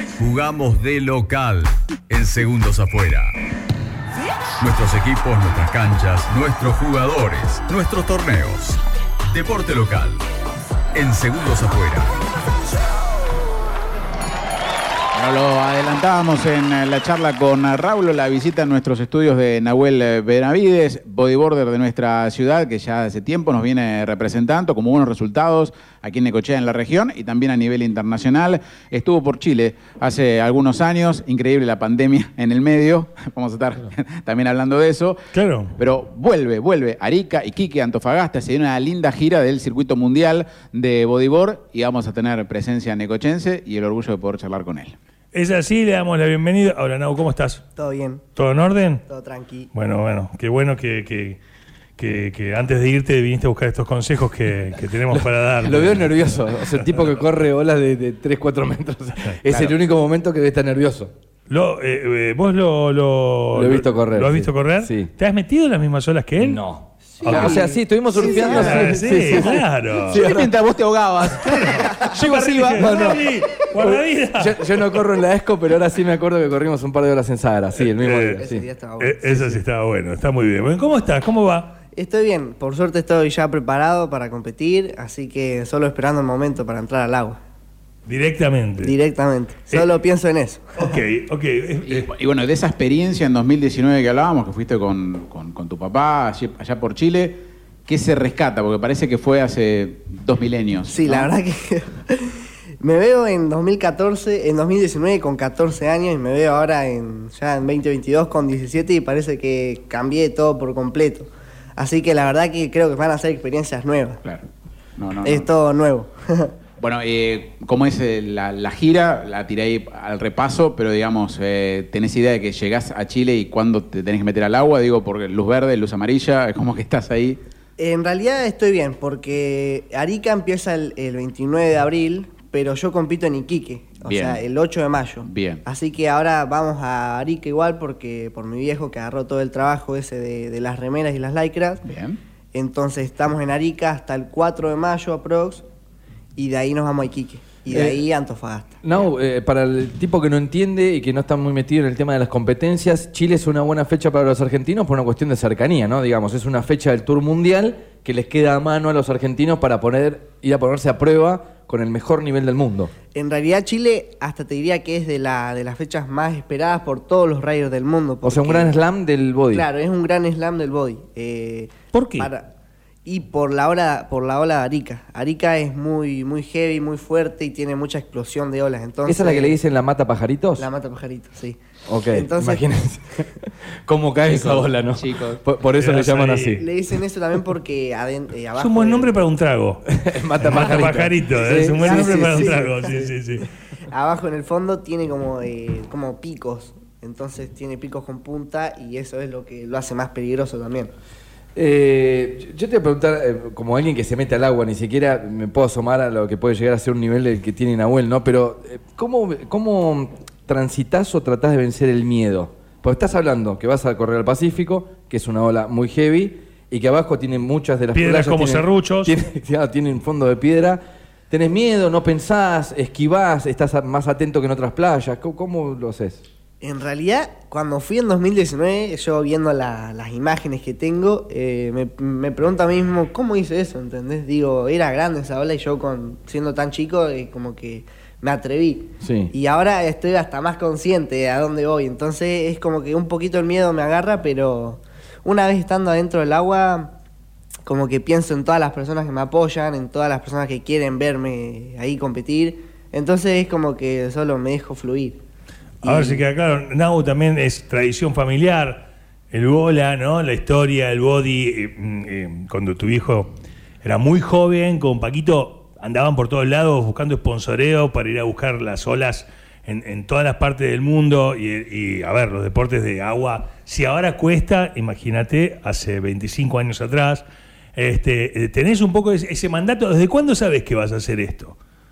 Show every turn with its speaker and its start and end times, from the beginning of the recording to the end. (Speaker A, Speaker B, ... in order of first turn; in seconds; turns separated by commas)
Speaker A: 0.2-3.3, Speaker A: 4.6-8.8, Speaker A: 9.3-10.2, Speaker A: 10.9-12.1, Speaker B: 15.1-35.2, Speaker C: 35.3-35.7, Speaker B: 35.8-45.0, Speaker C: 45.3-47.6, Speaker D: 47.8-48.3, Speaker C: 48.4-49.0, Speaker D: 49.1-49.7, Speaker C: 49.7-51.4, Speaker C: 52.0-56.6, Speaker E: 55.1-61.1, Speaker B: 59.5-59.7, Speaker C: 61.5-66.6, Speaker E: 63.5-65.1, Speaker E: 66.4-70.5, Speaker D: 67.1-69.0, Speaker C: 67.2-70.3, Speaker B: 70.1-73.2, Speaker C: 71.4-74.6, Speaker E: 72.7-73.2, Speaker E: 73.8-78.6, Speaker C: 77.8-78.4, Speaker D: 78.4-79.6, Speaker C: 79.0-81.7, Speaker D: 81.9-87.4, Speaker C: 88.1-88.9, Speaker D: 88.8-90.9, Speaker C: 90.8-92.1, Speaker B: 91.8-101.3, Speaker D: 100.9-114.2, Speaker B: 115.0-115.5, Speaker D: 115.2-116.5, Speaker B: 116.8-127.4, Speaker D: 127.8-141.8, Speaker B: 134.0-134.4, Speaker B: 135.2-135.6, Speaker B: 141.8-142.2, Speaker D: 142.5-145.7, Speaker D: 146.3-148.8, Speaker E: 147.7-148.0, Speaker E: 148.8-162.9, Speaker D: 163.1-168.8, Speaker E: 168.2-169.7, Speaker D: 169.5-172.5, Speaker C: 171.9-172.3, Speaker D: 173.0-179.6, Speaker E: 179.1-180.7, Speaker D: 180.6-181.6, Speaker E: 181.9-186.7, Speaker D: 182.1-182.7, Speaker B: 184.3-185.4, Speaker C: 185.8-186.6, Speaker D: 186.6-189.2, Speaker C: 188.6-193.5, Speaker E: 189.9-192.8, Speaker D: 191.6-193.1, Speaker D: 193.9-200.9, Speaker E: 201.5-226.2, Speaker C: 217.9-219.1, Speaker D: 226.6-246.9, Speaker E: 239.0-239.3, Speaker D: 247.6-255.2, Speaker D: 255.8-256.2, Speaker C: 255.8-263.3, Speaker C: 263.8-281.6